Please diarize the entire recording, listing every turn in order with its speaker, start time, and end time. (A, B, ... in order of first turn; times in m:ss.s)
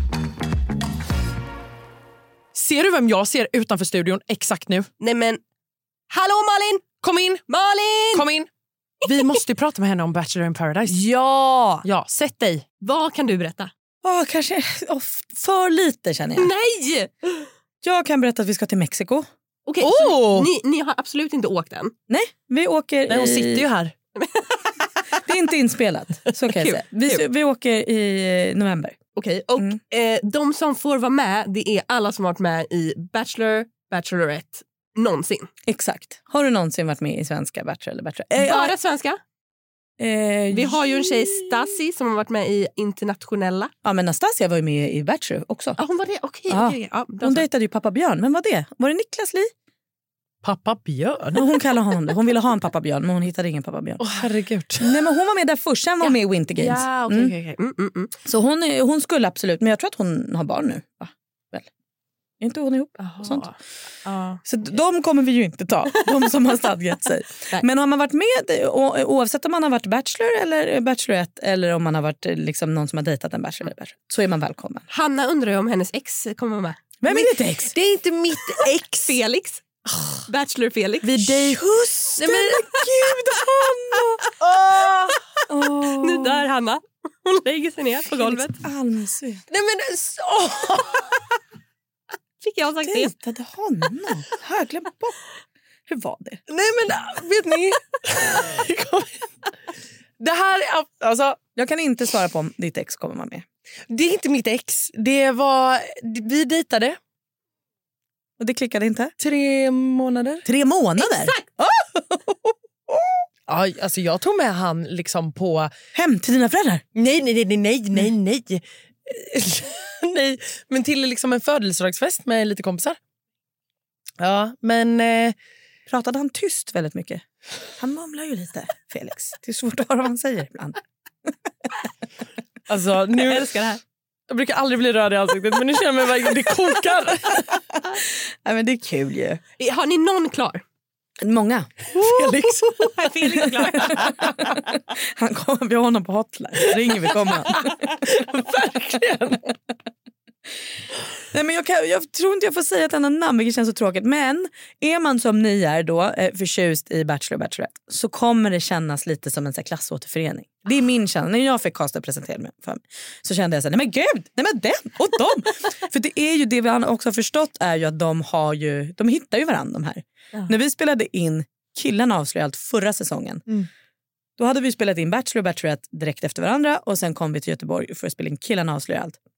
0:02.5-0:04.9 A
0:05.0-0:05.4 B
0:06.1-0:06.8 B
0:07.0-0:07.4 A
0:07.5-0:08.3 B
0:08.1-0:08.5 A
0:09.0-0:11.0 A
0:10.9-0:11.8 B
0:11.8-0:12.6 A
0:12.8-0:13.7 B
0:14.0-0:16.5 C
0:16.4-0:17.1 B
0:17.8-0:19.3 C
0:19.7-0:21.9 B
0:19.8-0:20.5 A
0:22.1-0:23.7 C
0:23.1-0:23.9 A
0:24.2-0:24.5 B
0:25.3-0:29.0 C
0:26.6-0:27.2 B
0:29.1-0:35.5 B
0:35.7-0:38.8 C
0:38.4-0:39.2 B
0:40.0-0:41.5 C
0:40.5-0:43.7 B
0:43.8-0:45.8 C
0:45.8-0:47.5 B
0:46.5-0:49.5 C
0:50.4-0:51.5 A
0:51.3-0:54.2 C
0:54.0-0:54.8 A
0:54.8-0:57.3 C
0:56.0-0:58.2 B
0:58.3-1:01.7 C
1:02.4-1:03.5 C
1:03.0-1:04.4 B
1:04.4-1:14.9 C
1:14.9-1:16.8 B
1:17.0-1:17.7 C
1:17.1-1:19.2 A
1:19.0-1:19.6 B
1:20.3-1:21.5 B
1:21.0-1:23.6 A
1:21.6-1:24.2 C
1:22.2-1:22.8 B
1:24.4-1:25.2 A
1:25.5-1:26.5 C
1:26.0-1:28.6 B
1:28.2-1:29.4 C
1:29.5-1:31.1 A
1:32.4-1:33.1 B
1:32.8-1:35.2 C
1:35.9-1:36.4 C
1:36.5-1:39.2 A
1:40.2-1:41.4 A
1:41.6-1:43.4 C
1:43.9-1:47.0 A
1:48.4-1:49.1 C
1:49.2-1:50.5 A
1:50.4-1:51.4 C
1:51.0-1:51.5 B
1:53.5-1:55.7 A
1:55.9-1:56.8 C
1:57.0-2:03.0 A
2:04.2-2:05.4 A
2:05.9-2:07.2 C
2:07.8-2:10.8 C
2:12.7-2:13.4 A
2:13.2-2:13.8 B
2:14.3-2:17.4 A
2:18.4-2:19.4 C
2:19.6-2:20.6 B
2:21.2-2:21.8 C
2:21.9-2:24.4 A
2:22.6-2:24.4 B
2:25.2-2:28.0 C
2:27.5-2:29.5 A
2:31.3-2:53.5 C
2:54.4-2:59.2 C